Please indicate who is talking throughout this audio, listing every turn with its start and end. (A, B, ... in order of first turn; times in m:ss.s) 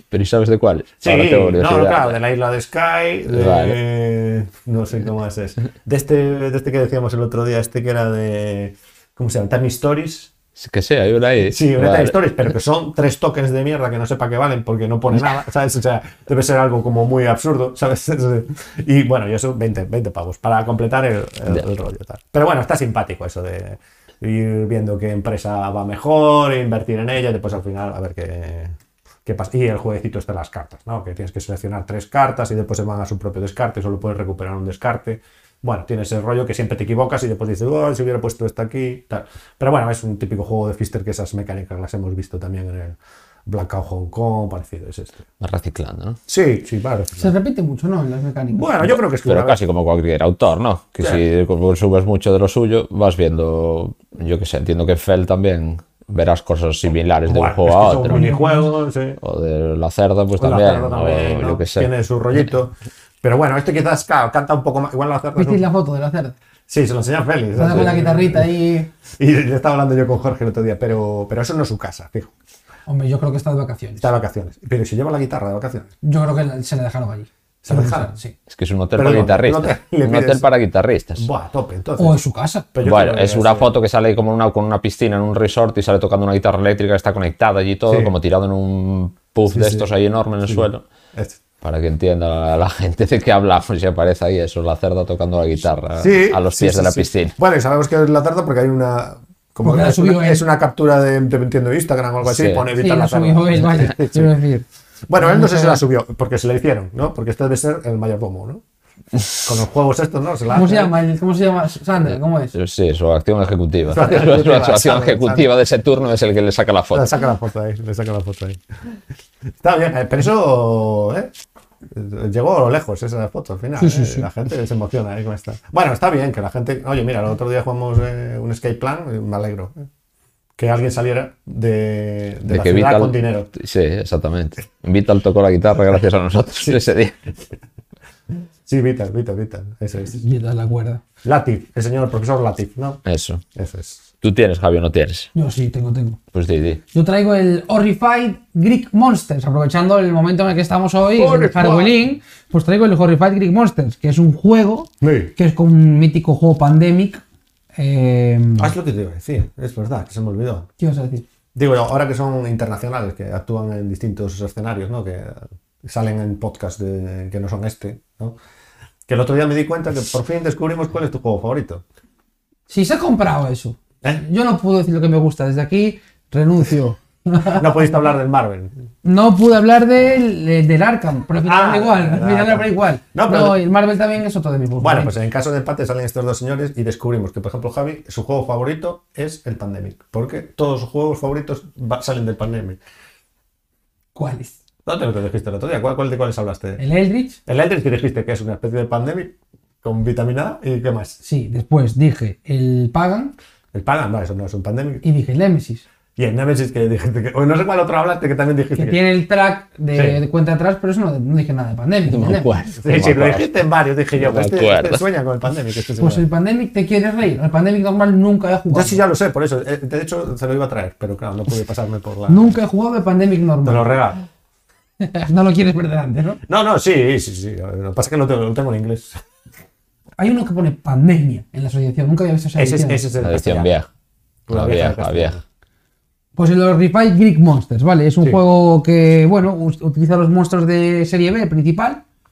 0:00.1-0:02.2 A
0:01.0-0:10.3 B
0:03.3-0:03.8 A
0:10.6-0:12.2 A
0:11.5-0:45.2 B
0:45.4-0:46.2 A
0:46.3-0:47.3 B
0:47.2-0:48.7 C
0:48.5-0:49.6 B
0:49.2-0:58.2 A
0:51.0-0:51.2 B
0:57.2-0:59.2 B
0:58.0-0:58.7 C
0:59.2-1:01.9 A
1:00.4-1:05.6 B
1:05.4-1:06.3 C
1:06.7-1:08.5 B
1:07.6-1:08.9 C
1:09.2-1:12.3 B
1:12.9-1:14.1 C
1:14.0-1:15.9 B
1:16.0-1:18.3 C
1:17.6-1:18.1 B
1:18.5-1:21.2 A
1:18.9-1:20.5 B
1:21.2-1:22.2 B
1:22.0-1:22.7 C
1:22.7-1:23.7 B
1:22.8-1:30.8 A
1:27.9-1:28.1 B
1:29.5-1:29.9 B
1:30.4-1:31.4 B
1:31.6-1:37.3 A
1:36.0-1:44.3 B
1:39.6-1:40.4 C
1:42.2-1:42.6 A
1:42.8-1:45.8 C
1:45.1-1:48.6 B
1:49.4-1:50.9 B
1:50.5-1:52.5 C
1:52.5-1:57.1 A
1:53.8-1:55.4 B
1:56.9-1:59.0 B
1:59.6-2:01.3 B
2:01.9-2:09.9 B
2:03.8-2:04.3 C
2:10.6-2:13.5 B
2:12.5-2:17.1 A
2:18.7-2:20.2 B
2:20.2-2:21.0 C
2:21.2-2:23.0 B
2:23.0-2:23.4 A
2:23.5-2:24.0 B
2:24.2-2:25.3 A
2:25.3-2:26.2 C
2:26.3-2:26.8 A
2:26.9-2:37.2 C
2:31.1-2:31.9 B
2:35.0-2:35.3 B
2:37.7-2:38.7 C
2:38.6-2:40.7 B
2:40.8-2:41.2 C
2:41.5-2:48.4 B
2:49.1-2:51.8 B
2:52.7-2:57.7 C
2:57.4-2:58.7 B
2:59.0-3:05.1 C
3:01.4-3:03.6 B
3:04.8-3:12.8 B
3:14.1-3:14.6 C
3:14.8-3:16.8 B
3:16.8-3:17.4 C
3:17.4-3:21.2 B
3:21.2-3:23.3 C
3:23.7-3:25.0 B
3:25.0-3:25.8 C
3:26.2-3:29.0 B
3:28.8-3:32.5 C
3:29.9-3:30.2 B
3:32.1-3:33.5 A
3:32.8-3:36.2 B
3:34.1-3:35.0 A
3:36.0-3:39.0 C
3:38.7-3:42.5 B
3:42.3-3:44.0 C
3:43.6-3:44.2 B
3:45.0-3:46.4 C
3:46.5-3:49.2 B
3:50.2-3:53.0 C
3:52.5-3:53.7 B
3:53.2-3:53.9 A
3:54.5-3:55.4 B
3:54.5-3:55.3 A
3:56.4-4:02.0 C